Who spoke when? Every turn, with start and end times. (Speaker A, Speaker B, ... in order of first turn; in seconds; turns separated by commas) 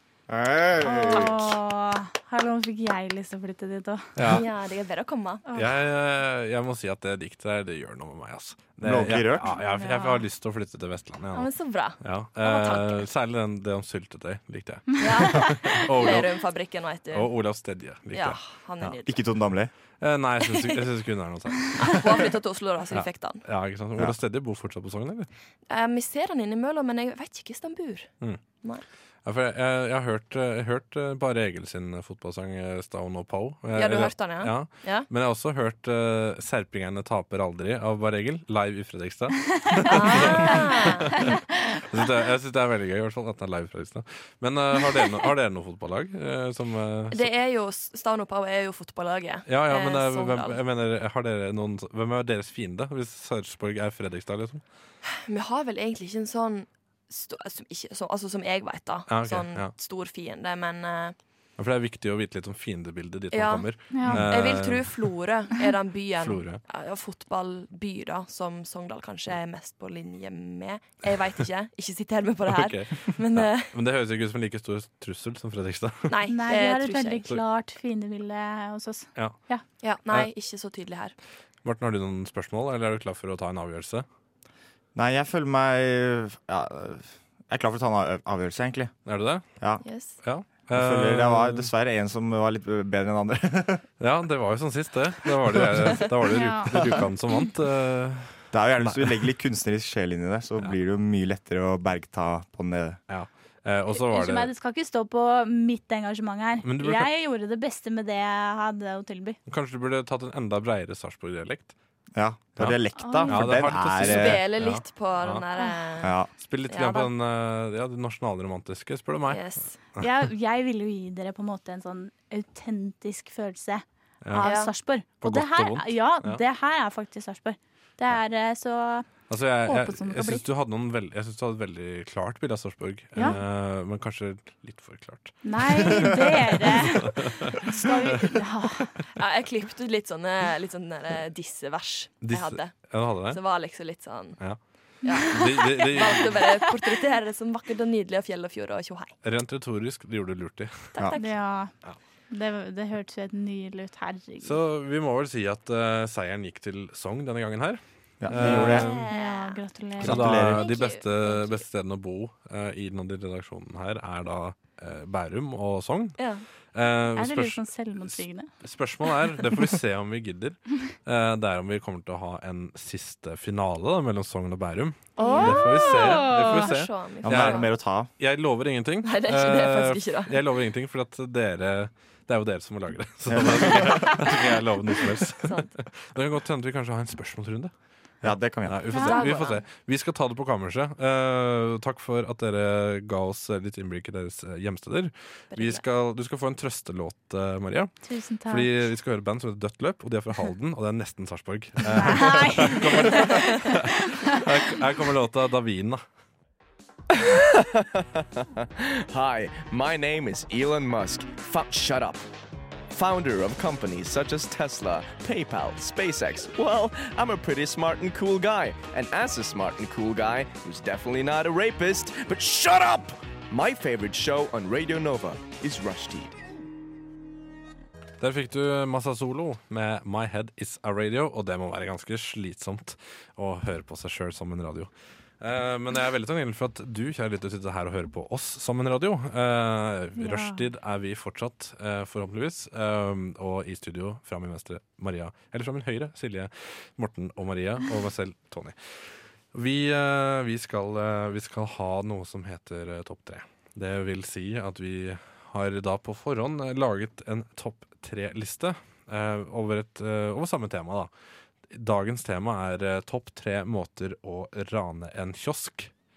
Speaker A: 0.3-1.5, Speaker B: 0.8-4.3, Speaker C: 4.2-4.5, Speaker D: 4.2-5.5, Speaker C: 5.5-16.3, Speaker A: 8.8-9.6, Speaker B: 9.7-10.2, Speaker D: 11.3-13.1, Speaker D: 15.0-17.3, Speaker C: 17.1-19.0, Speaker D: 18.1-19.2, Speaker A: 19.1-19.7, Speaker C: 20.0-22.3, Speaker D: 21.8-23.4, Speaker C: 22.9-25.3, Speaker D: 25.7-28.8, Speaker C: 29.2-41.3, Speaker D: 33.7-35.1, Speaker D: 39.8-41.4, Speaker C: 41.9-47.3, Speaker D: 47.1-50.6, Speaker C: 49.5-54.6, Speaker D: 55.3-61.1, Speaker C: 59.1-59.7, Speaker C: 61.6-65.1, Speaker D: 63.3-73.7, Speaker B: 63.9-64.2, Speaker C: 66.2-66.6, Speaker C: 72.5-76.1, Speaker D: 76.1-77.3, Speaker B: 76.3-79.6, Speaker D: 79.8-81.1, Speaker C: 81.6-84.0, Speaker A: 84.9-88.9, Speaker C: 89.0-89.4, Speaker A: 89.6-89.8, Speaker D: 89.8-90.2, Speaker C: 90.1-91.7, Speaker A: 90.7-93.8, Speaker C: 94.0-99.2, Speaker B: 96.3-96.8, Speaker A: 98.5-103.0, Speaker C: 103.1-104.5, Speaker B: 103.9-109.4, Speaker C: 106.6-107.1, Speaker C: 109.5-111.7, Speaker A: 112.1-114.4, Speaker C: 112.6-115.4, Speaker B: 112.9-113.4, Speaker D: 114.0-116.1, Speaker A: 116.0-116.3, Speaker C: 116.3-120.0, Speaker D: 116.7-117.1, Speaker D: 119.3-119.7, Speaker B: 120.0-130.4, Speaker C: 124.2-124.6, Speaker D: 124.4-124.7, Speaker C: 125.2-126.4, Speaker C: 129.3-137.7, Speaker B: 135.4-138.9, Speaker D: 139.1-144.4, Speaker C: 142.2-143.4, Speaker D: 145.0-149.1, Speaker C: 145.2-146.5, Speaker C: 149.2-150.9, Speaker D: 150.9-151.4, Speaker B: 151.2-151.7, Speaker B: 152.3-154.6, Speaker C: 154.4-159.1, Speaker A: 158.2-158.9, Speaker D: 158.3-159.6, Speaker B: 158.9-160.3, Speaker A: 160.0-160.7, Speaker C: 160.0-166.2, Speaker D: 160.3-161.6, Speaker D: 166.2-166.4, Speaker C: 166.7-187.7, Speaker B: 167.2-168.5, Speaker B: 175.2-176.7, Speaker D: 175.2-177.7, Speaker A: 177.2-178.1, Speaker D: 179.0-180.4, Speaker A: 183.3-184.2, Speaker D: 185.4-185.7, Speaker A: 188.2-188.9, Speaker C: 188.6-206.0, Speaker B: 188.9-189.2, Speaker D: 189.0-189.7, Speaker D: 195.5-195.8, Speaker B: 198.0-198.7, Speaker B: 201.9-204.4, Speaker E: 207.1-212.2, Speaker E: 212.9-226.4, Speaker C: 228.2-261.1, Speaker B: 240.2-240.6, Speaker C: 261.7-265.9